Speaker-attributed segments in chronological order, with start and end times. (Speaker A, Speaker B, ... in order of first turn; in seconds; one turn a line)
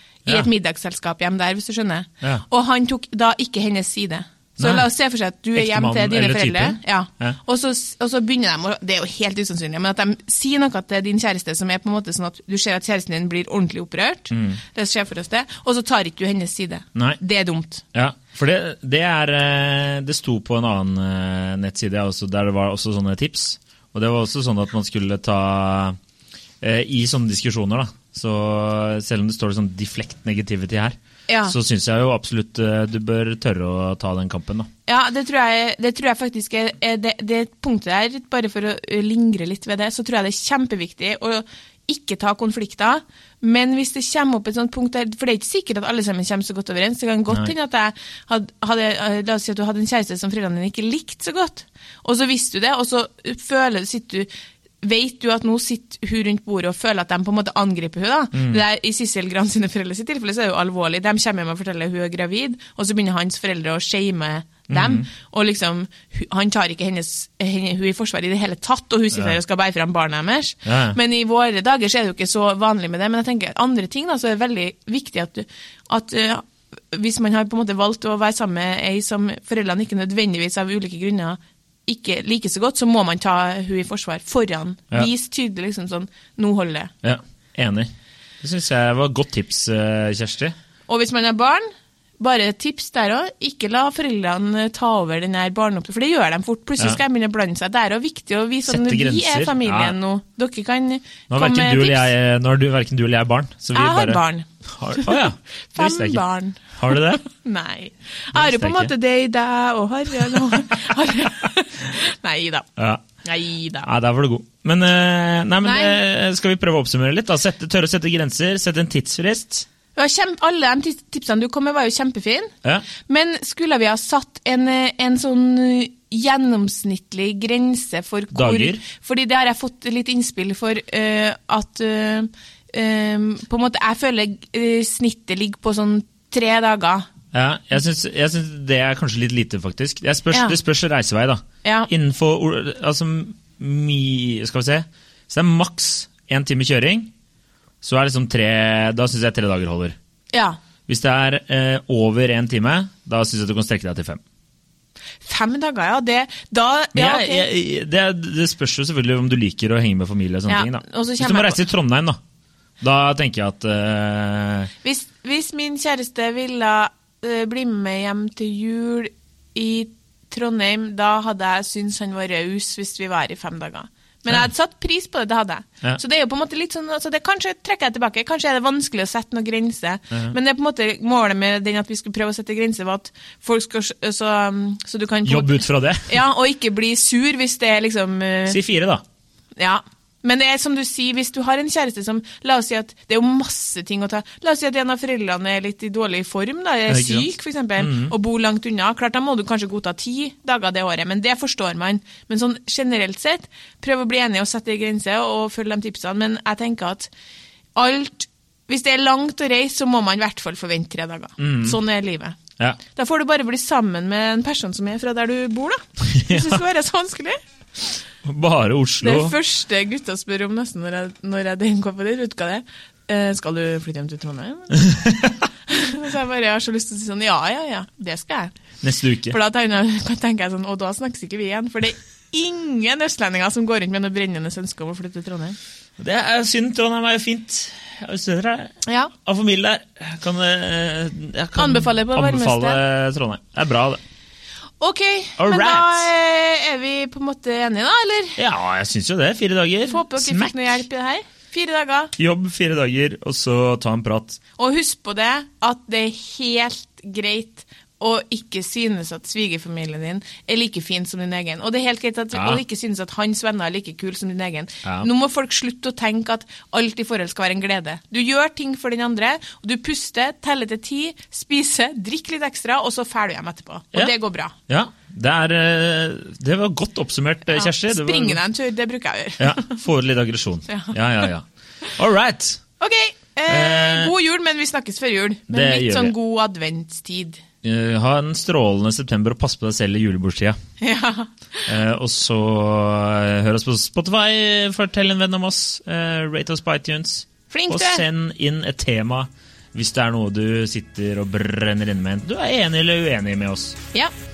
Speaker A: 0.2-17.8
Speaker B: 4.6-4.9
Speaker B: 5.5-7.4
Speaker B: 14.3-14.6
Speaker B: 17.9-25.9
Speaker B: 26.6-34.7
Speaker A: 31.3-31.5
Speaker A: 34.9-54.3
Speaker A: 54.8-86.9
Speaker B: 64.7-65.1
Speaker B: 70.7-71.0
Speaker B: 87.0-87.9
Speaker B: 88.4-90.5
Speaker A: 90.9-91.7
Speaker A: 92.2-102.1
Speaker B: 98.7-100.0
Speaker B: 101.3-107.2
Speaker A: 103.7-112.7
Speaker B: 108.3-108.9
Speaker B: 112.8-113.0
Speaker A: 113.2-113.9
Speaker B: 113.8-119.7
Speaker A: 115.6-116.0
Speaker A: 120.0-137.1
Speaker B: 128.3-128.8
Speaker B: 137.3-147.1
Speaker A: 140.3-140.6
Speaker A: 141.6-141.9
Speaker B: 147.8-149.9
Speaker A: 150.3-150.6
Speaker B: 150.9-154.2
Speaker A: 155.2-157.5
Speaker B: 156.9-162.2
Speaker A: 160.5-161.6
Speaker B: 162.8-164.7
Speaker A: 164.8-188.6
Speaker B: 185.2-186.2
Speaker B: 188.5-189.0
Speaker A: 189.6-207.1
Speaker B: 196.9-198.1
Speaker A: 207.7-212.4
Speaker B: 211.4-211.8
Speaker A: 212.9-217.4
Speaker B: 216.1-216.6
Speaker B: 218.2-219.3
Speaker A: 219.0-225.0
Speaker B: 224.8-225.3
Speaker A: 225.7-228.5
Speaker B: 228.8-229.3
Speaker A: 229.3-235.6
Speaker B: 236.0-244.0
Speaker A: 238.8-239.1
Speaker A: 241.6-242.8
Speaker A: 244.8-248.4
Speaker B: 245.4-246.1
Speaker B: 248.4-250.8
Speaker A: 249.9-252.1
Speaker B: 252.2-254.4
Speaker A: 254.6-274.5
Speaker B: 262.3-262.6
Speaker B: 264.8-265.1
Speaker B: 274.7-278.4
Speaker A: 277.5-279.7
Speaker B: 279.4-282.6
Speaker A: 280.7-280.9
Speaker A: 282.8-287.4
Speaker B: 283.5-284.1
Speaker B: 285.5-286.1
Speaker B: 287.6-290.6
Speaker A: 290.8-291.7
Speaker B: 291.7-303.8
Speaker A: 297.5-298.0